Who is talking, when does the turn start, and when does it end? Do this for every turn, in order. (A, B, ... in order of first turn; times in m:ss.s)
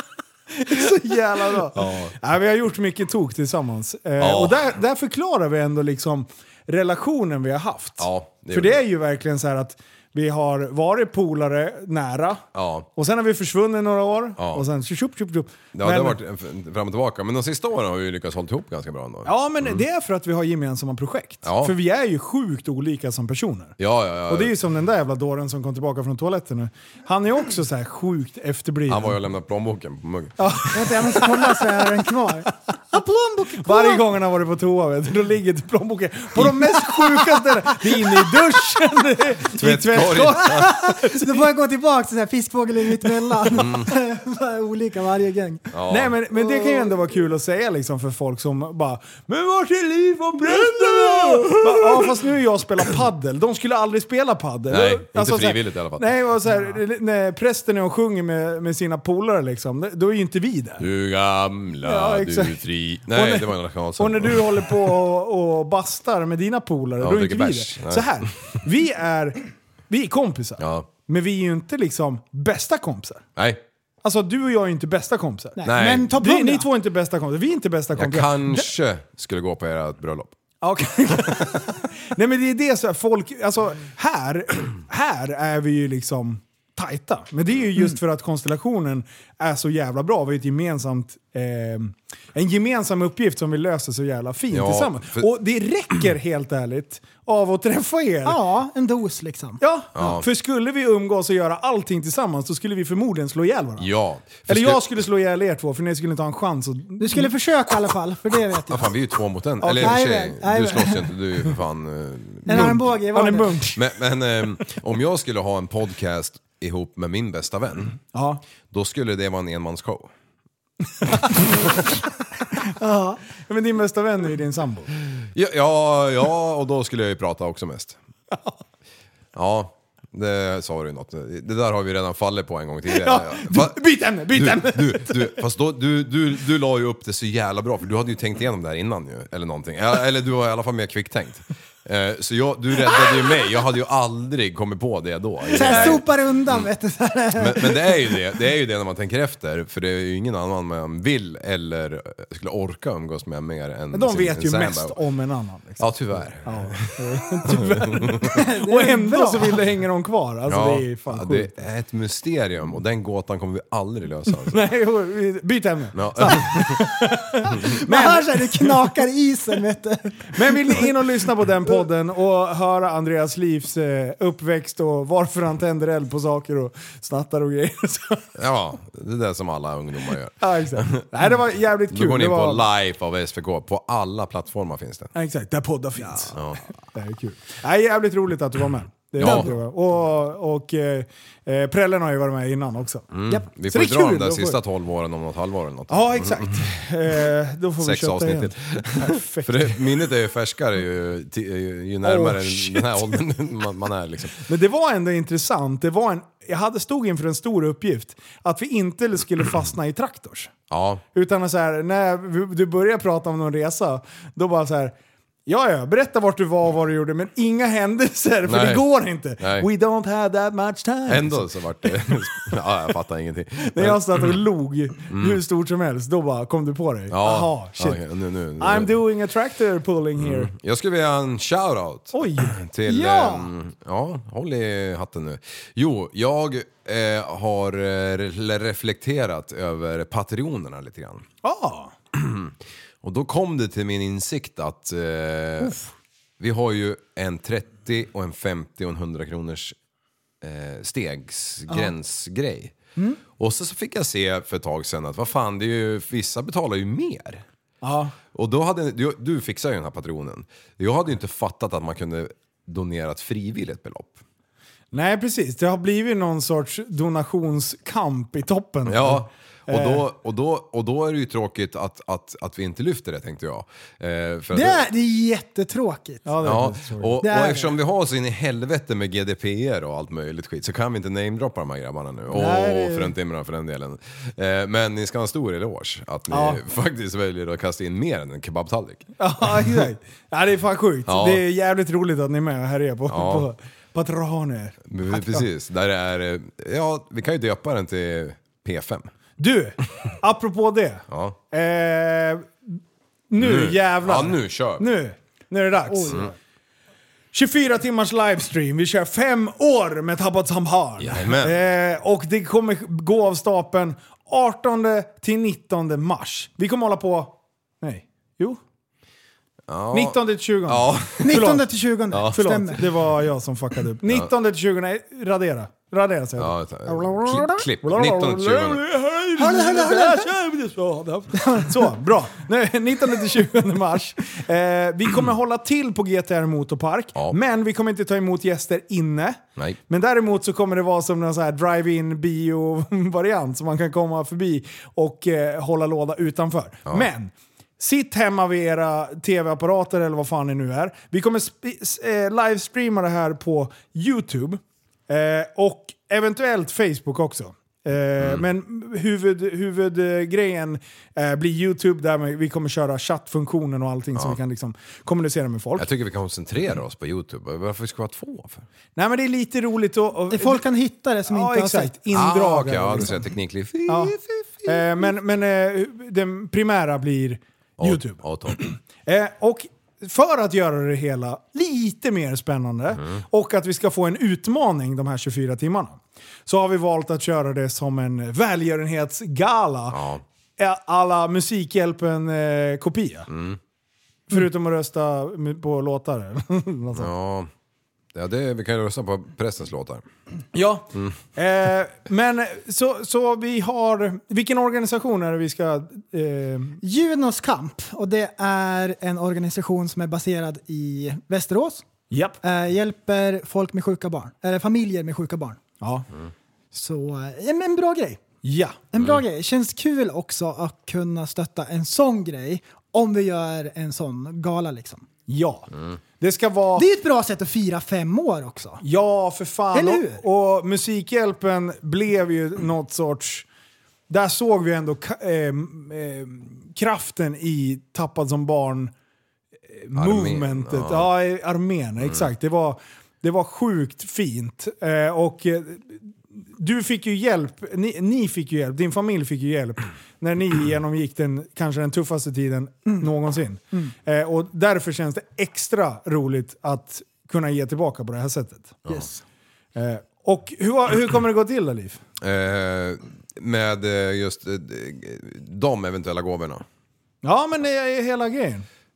0:00.6-0:12.4 A
0:01.7-0:02.2 B
0:04.2-0:04.8 B
0:08.0-0:08.8 B
0:12.6-0:12.9 B
0:13.0-0:16.2 A
0:14.4-0:14.7 B
0:15.8-0:19.8 B
0:19.2-0:23.8 A
0:21.4-0:21.8 B
0:23.8-0:24.5 B
0:24.3-0:29.2 A
0:28.9-0:30.7 B
0:30.4-0:32.5 A
0:30.7-0:34.0 C
0:33.6-0:41.4 A
0:39.6-0:40.7 B
0:40.5-0:45.6 C
0:43.5-0:43.9 B
0:45.7-0:46.2 B
0:45.9-1:00.9 A
0:54.7-0:56.1 B
1:00.8-1:04.8 B
1:01.8-1:13.2 A
1:07.0-1:08.6 B
1:10.6-1:10.9 B
1:13.4-1:13.6 B
1:14.0-1:18.7 A
1:15.6-1:16.7 C
1:15.6-1:16.1 B
1:18.0-1:20.4 B
1:20.6-1:38.4 A
1:34.5-1:35.3 B
1:38.2-1:39.6 C
1:39.6-1:43.9 A
1:40.0-1:40.3 B
1:43.8-1:44.9 B
1:44.5-1:47.3 A
1:47.0-1:48.9 C
1:48.7-1:52.9 B
1:49.6-1:50.1 A
1:49.8-1:51.0 C
1:52.5-1:53.6 C
1:52.5-1:53.8 A
1:53.8-1:58.0 B
1:58.1-1:58.4 A
1:58.7-2:00.1 B
2:02.8-2:03.2 C
2:03.5-2:04.9 A
2:05.3-2:08.0 B
2:09.3-2:13.8 B
2:12.9-2:15.4 A
2:14.3-2:26.7 B
2:25.5-2:28.0 C
2:25.6-2:26.0 A
2:27.4-2:35.0 B
2:33.9-2:41.5 A
2:35.8-2:38.3 B
2:38.4-2:39.5 C
2:40.5-2:44.6 B
2:44.3-2:48.9 A
2:46.0-2:46.8 B
2:47.8-2:50.9 C
2:50.3-2:58.3 A
2:58.4-3:01.1 B
3:00.4-3:02.6 A
3:01.9-3:05.1 B
3:05.2-3:06.4 A
3:06.3-3:06.6 B
3:06.9-3:13.1 A
3:09.2-3:09.5 B
3:13.1-3:16.7 B
3:13.7-3:14.6 A
3:15.9-3:19.9 A
3:17.8-3:24.4 B
3:22.0-3:23.2 A
3:24.4-3:30.5 A
3:30.7-3:31.0 B
3:31.1-3:42.2 A
3:38.4-3:38.8 B
3:39.4-3:39.7 B
3:41.1-3:44.4 B
3:43.7-3:48.0 A
3:45.1-3:45.4 B
3:47.1-3:49.0 B
3:48.6-3:50.5 A
3:50.2-4:01.3 B
3:52.1-3:52.6 A
3:52.9-3:53.5 C
4:01.4-4:01.9 A
4:02.1-4:02.5 B
4:03.0-4:05.8 B
4:06.4-4:09.8 B
4:10.4-4:12.7 B
4:13.4-4:17.4 B
4:17.8-4:18.2 A
4:18.3-4:24.2 B
4:24.9-4:30.1 A
4:28.9-4:34.8 B
4:34.5-4:36.3 C
4:36.2-4:37.2 A
4:36.4-4:49.1 B
4:37.2-4:37.7 C
4:42.3-4:43.2 A
4:46.3-4:46.6 A
4:49.2-4:55.5 A
4:51.1-4:51.4 B
4:53.1-4:53.5 B
4:54.9-4:59.1 B
4:59.4-5:02.8 A
5:01.1-5:01.4 B
5:03.3-5:06.3 A
5:03.4-5:04.9 B
5:05.9-5:06.2 C
5:07.3-5:18.6 A
5:11.0-5:11.6 B
5:19.7-5:21.5 B
5:19.9-6:05.9 A
5:21.2-5:22.8 C
5:22.1-5:22.6 B
5:26.4-5:28.8 B
5:29.4-5:30.3 C
5:58.2-5:58.5 B
6:05.8-6:08.7 B
6:09.0-6:10.6 A
6:10.3-6:11.9 C
6:11.3-6:13.2 A
6:12.1-6:14.2 B
6:13.9-6:30.0 A
6:17.8-6:18.6 B
6:29.9-6:30.2 B
6:30.6-6:33.3 A
6:33.3-6:33.6 B
6:34.3-6:37.1 A
6:37.0-6:37.5 B
6:38.1-6:40.0 B
6:40.5-6:46.8 A
6:46.8-6:51.8 C
6:52.1-6:52.4 A
6:52.4-6:55.6 C
6:55.8-6:56.1 A
6:56.7-6:58.2 C
6:58.4-6:58.8 A
6:58.9-7:05.1 C
7:05.3-7:05.7 A
7:06.2-7:06.9 A
7:06.8-7:08.8 C
7:08.8-7:13.5 A
7:09.7-7:10.2 C
7:14.1-7:18.9 A
7:19.7-7:38.9 A
7:20.0-7:21.1 B
7:38.9-7:39.2 C
7:39.8-7:42.0 A
7:42.2-7:46.6 B
7:47.2-7:48.7 A